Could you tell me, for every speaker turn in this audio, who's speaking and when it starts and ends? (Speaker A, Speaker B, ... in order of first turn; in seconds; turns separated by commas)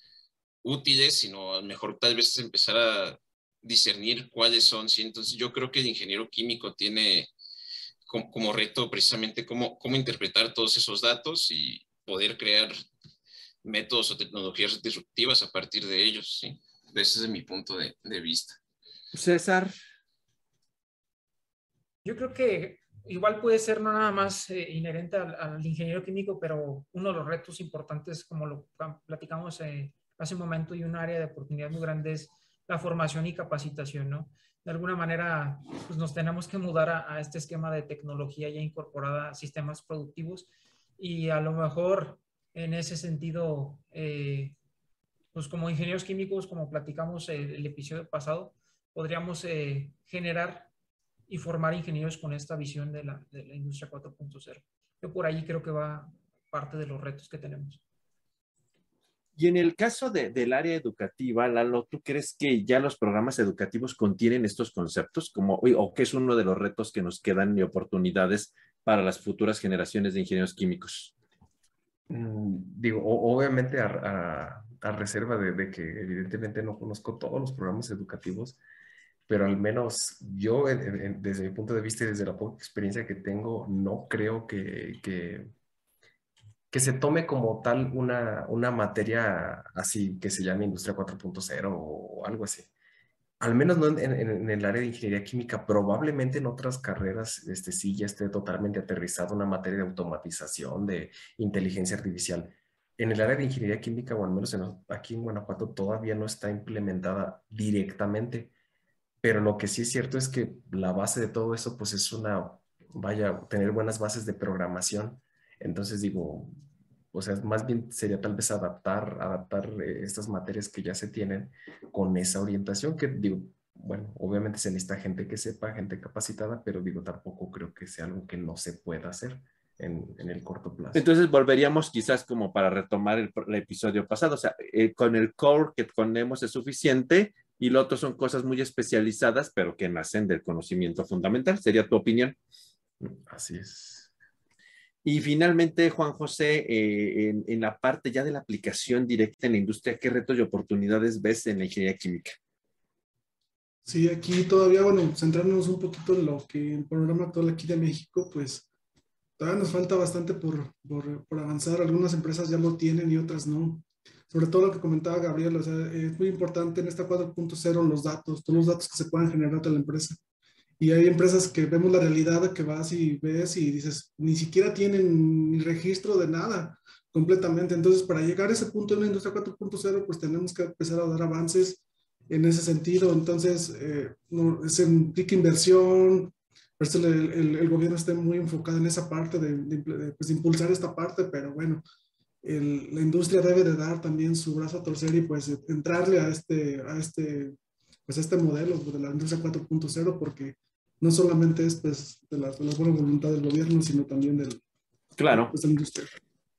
Speaker A: 0.6-7.3, Speaker A: 8.1-12.7, Speaker A: 13.6-18.6, Speaker B: 19.1-19.7, Speaker C: 22.0-44.5, Speaker C: 45.3-50.7, Speaker C: 51.3-57.8, Speaker B: 59.4-71.1, Speaker D: 72.1-78.6, Speaker D: 79.3-85.5, Speaker D: 86.7-92.7, Speaker D: 93.4-108.5, Speaker D: 109.2-116.6, Speaker D: 117.1-131.0, Speaker B: 130.9-142.4, Speaker D: 143.0-144.1, Speaker B: 145.0-152.4, Speaker E: 153.8-158.7, Speaker E: 159.4-170.2, Speaker E: 170.8-191.8, Speaker E: 192.4-197.5, Speaker E: 198.1-204.6, Speaker B: 205.2-205.5, Speaker E: 205.3-206.1